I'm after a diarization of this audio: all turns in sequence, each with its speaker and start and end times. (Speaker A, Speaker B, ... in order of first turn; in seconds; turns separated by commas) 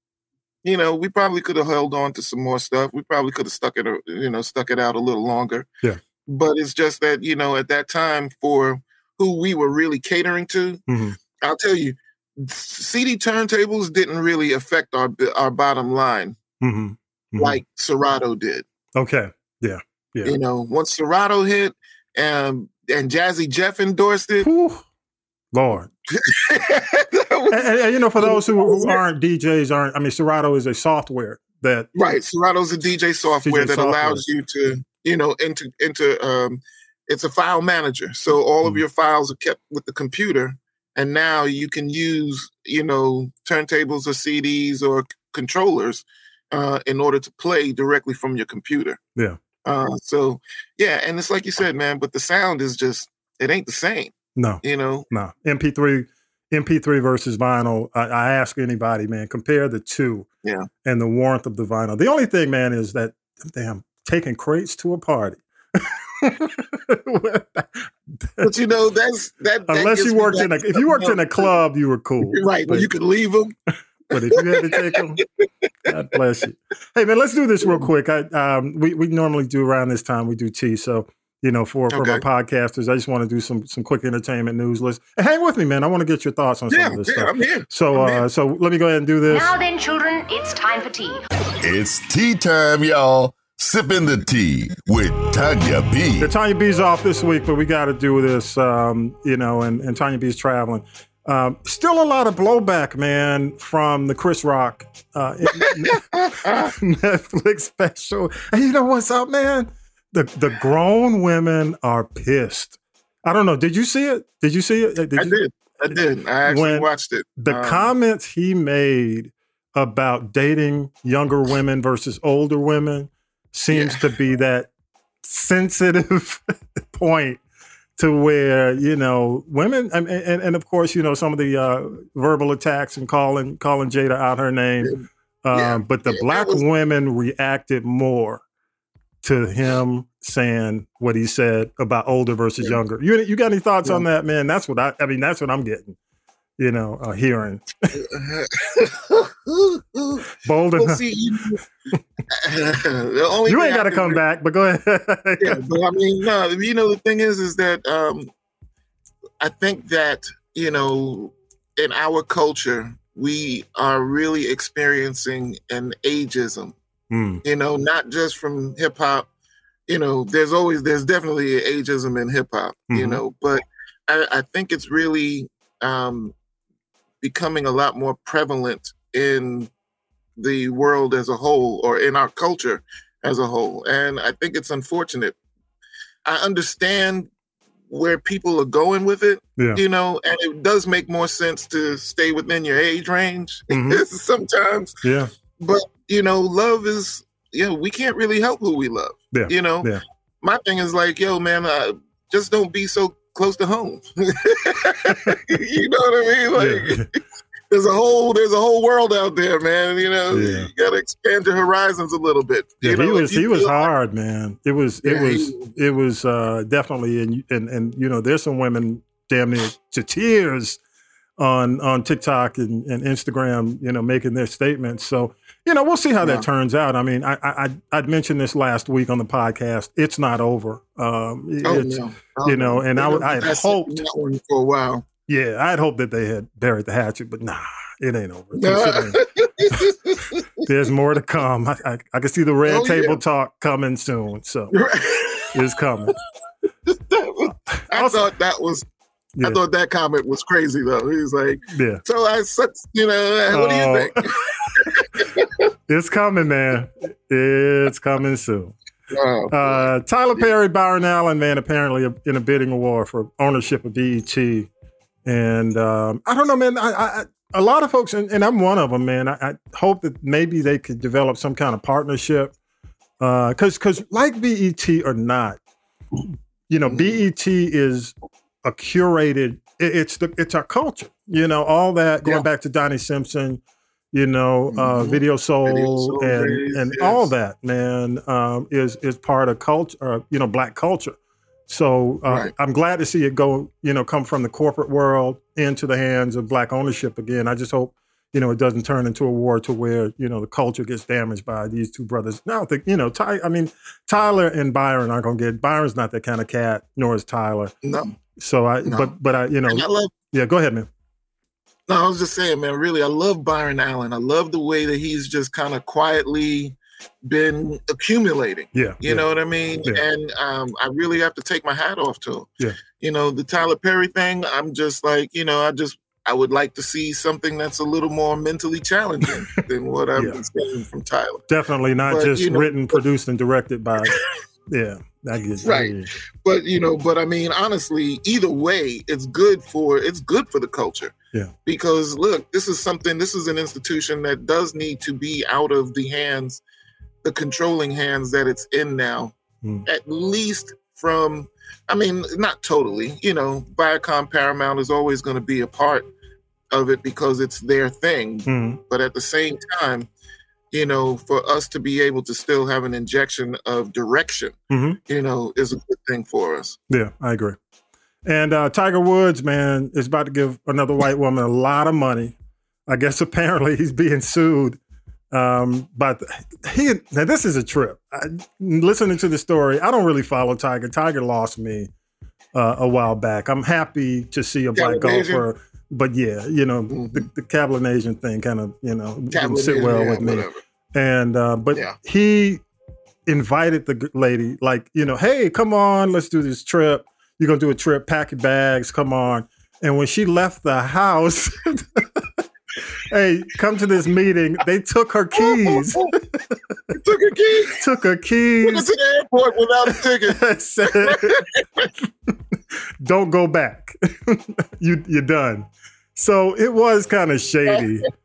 Speaker A: 0.6-5.7, Speaker A: 6.3-10.8, Speaker B: 10.9-11.2, Speaker A: 11.4-16.4, Speaker B: 16.6-17.6, Speaker A: 17.4-18.6, Speaker B: 18.9-20.4, Speaker A: 20.2-24.5, Speaker B: 24.4-24.8, Speaker B: 25.5-25.9, Speaker A: 26.1-29.0, Speaker B: 27.5-31.9, Speaker A: 31.9-49.0, Speaker B: 33.4-34.2, Speaker A: 49.6-55.1, Speaker B: 54.4-60.3, Speaker B: 60.8-68.5, Speaker A: 68.4-71.5, Speaker B: 69.7-72.9, Speaker A: 72.2-73.5, Speaker B: 74.1-75.2, Speaker A: 74.1-75.9, Speaker B: 75.9-89.6, Speaker A: 81.9-82.2, Speaker A: 86.7-88.3, Speaker C: 89.3-91.2, Speaker D: 91.6-96.3, Speaker B: 96.2-115.4, Speaker A: 105.5-106.7, Speaker A: 115.2-117.9, Speaker B: 116.5-124.7, Speaker A: 123.7-124.1, Speaker B: 125.2-127.4, Speaker B: 128.0-138.4, Speaker A: 134.8-136.6, Speaker B: 139.2-146.0, Speaker B: 146.6-147.9, Speaker A: 147.9-151.6, Speaker B: 150.4-151.0, Speaker A: 152.3-154.2, Speaker B: 153.5-155.6, Speaker A: 155.4-158.3, Speaker A: 159.4-166.7, Speaker B: 167.1-167.4, Speaker A: 167.4-169.3, Speaker A: 169.9-176.3, Speaker B: 172.9-173.2, Speaker A: 177.2-179.7, Speaker A: 180.4-185.3, Speaker A: 186.2-187.3, Speaker A: 187.9-194.9, Speaker B: 193.7-194.0, Speaker B: 195.0-195.3, Speaker A: 195.6-207.1, Speaker B: 199.3-200.0, Speaker B: 206.5-207.1, Speaker A: 207.7-213.9, Speaker B: 210.3-210.7, Speaker B: 212.8-220.8, Speaker A: 215.0-215.7, Speaker B: 221.4-234.0, Speaker A: 226.2-226.4, Speaker A: 231.6-235.0, Speaker B: 235.3-239.9, Speaker A: 238.5-240.6, Speaker B: 240.6-244.7, Speaker A: 242.7-243.2, Speaker A: 244.7-245.6, Speaker B: 245.5-246.1, Speaker A: 246.8-248.8, Speaker B: 247.8-248.3, Speaker A: 249.4-255.6, Speaker B: 251.7-252.0, Speaker B: 253.5-254.2, Speaker B: 255.9-258.7, Speaker A: 259.1-260.5, Speaker B: 259.5-264.7, Speaker B: 265.2-272.5, Speaker B: 273.2-275.6, Speaker B: 276.2-283.6, Speaker A: 276.9-277.2, Speaker B: 284.1-307.7, Speaker A: 284.7-287.3, Speaker A: 307.8-308.1, Speaker B: 308.4-310.9, Speaker A: 308.8-309.1, Speaker A: 309.7-310.1, Speaker A: 311.9-331.4, Speaker B: 318.7-319.2, Speaker B: 330.1-330.4, Speaker B: 331.5-334.2, Speaker A: 332.0-333.0, Speaker B: 334.7-336.1, Speaker A: 335.6-341.1, Speaker A: 341.6-346.6, Speaker A: 347.2-349.3, Speaker A: 349.8-356.1, Speaker A: 356.7-360.1, Speaker B: 358.5-358.8, Speaker A: 360.7-364.6, Speaker B: 364.7-365.0, Speaker A: 365.1-366.8, Speaker B: 366.9-367.6, Speaker B: 368.2-372.4, Speaker B: 372.9-374.8, Speaker B: 375.3-381.9, Speaker B: 382.5-392.6, Speaker A: 384.7-385.4, Speaker A: 386.9-387.3, Speaker A: 389.3-390.6, Speaker B: 393.2-402.4, Speaker B: 403.0-406.5, Speaker A: 405.4-406.1, Speaker A: 406.9-407.8, Speaker B: 407.7-408.9, Speaker A: 408.6-411.9, Speaker B: 409.9-411.4, Speaker B: 411.9-418.1